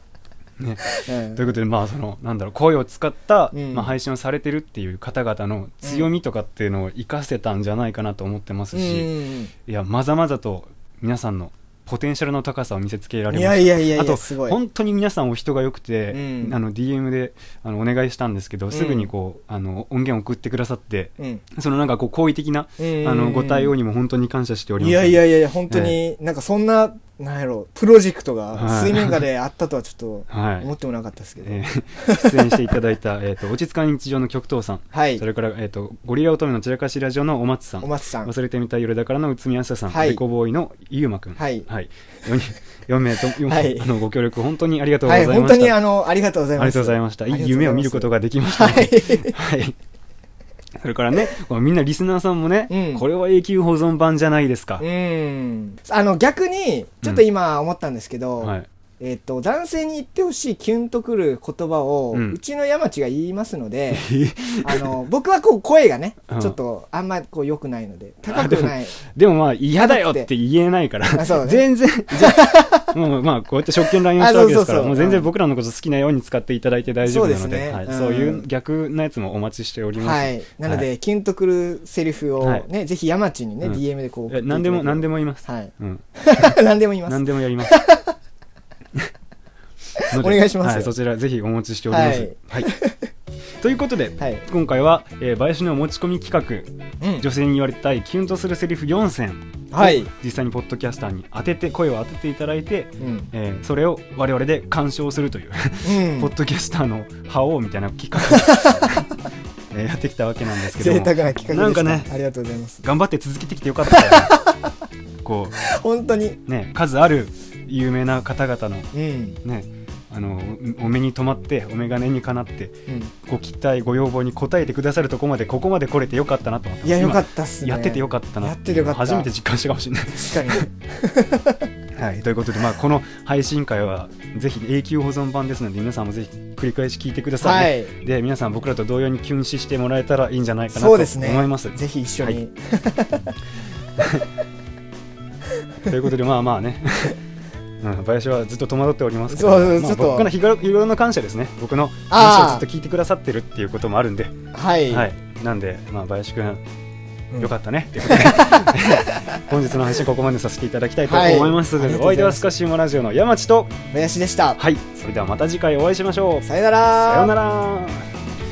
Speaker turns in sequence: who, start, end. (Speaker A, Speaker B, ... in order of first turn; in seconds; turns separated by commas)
Speaker A: 0.6-26.0, Speaker B: 1.0-1.4, Speaker B: 3.5-3.9, Speaker B: 8.7-9.5, Speaker B: 13.3-14.6, Speaker B: 16.1-16.6, Speaker B: 18.7-19.1, Speaker B: 22.8-23.7, Speaker B: 24.8-32.5, Speaker A: 28.6-29.2, Speaker A: 30.3-30.7, Speaker A: 31.4-45.8, Speaker B: 34.9-35.2, Speaker B: 37.8-38.3, Speaker B: 39.9-40.2, Speaker B: 41.4-41.7, Speaker B: 43.5-43.9, Speaker B: 45.0-49.4, Speaker A: 46.6-49.8, Speaker A: 50.8-54.9, Speaker B: 52.7-53.0, Speaker B: 54.8-64.1, Speaker A: 58.4-58.7, Speaker A: 62.1-62.4, Speaker A: 63.9-64.9, Speaker B: 64.6-69.0, Speaker A: 66.3-66.6, Speaker A: 68.3-80.9, Speaker B: 69.8-70.3, Speaker B: 71.1-72.9, Speaker B: 74.2-75.3, Speaker B: 77.0-78.5, Speaker B: 80.0-88.0, Speaker A: 82.4-82.7, Speaker A: 83.6-87.8, Speaker B: 90.0-90.9, Speaker A: 90.1-92.7, Speaker B: 91.9-93.1, Speaker A: 93.6-109.1, Speaker B: 94.2-94.4, Speaker B: 97.0-97.3, Speaker B: 99.7-100.1, Speaker B: 103.0-103.3, Speaker B: 105.8-106.3, Speaker B: 108.2-108.9, Speaker A: 109.7-112.1, Speaker B: 110.8-112.8, Speaker A: 112.8-114.4, Speaker B: 113.9-114.6, Speaker A: 115.2-115.7, Speaker B: 115.7-116.4, Speaker A: 116.5-118.9, Speaker B: 118.9-119.4, Speaker A: 119.4-130.7, Speaker B: 126.8-129.3, Speaker B: 130.1-131.6, Speaker A: 131.9-142.4, Speaker B: 137.4-137.9, Speaker B: 140.7-143.3, Speaker A: 144.0-144.2, Speaker A: 145.9-147.2, Speaker A: 147.8-154.3, Speaker B: 149.3-150.3, Speaker B: 152.1-152.6, Speaker B: 154.5-155.1, Speaker A: 154.9-156.6, Speaker A: 157.4-163.8, Speaker B: 158.1-159.2, Speaker B: 161.1-162.4, Speaker B: 163.9-164.6, Speaker A: 164.6-168.1, Speaker B: 166.4-167.3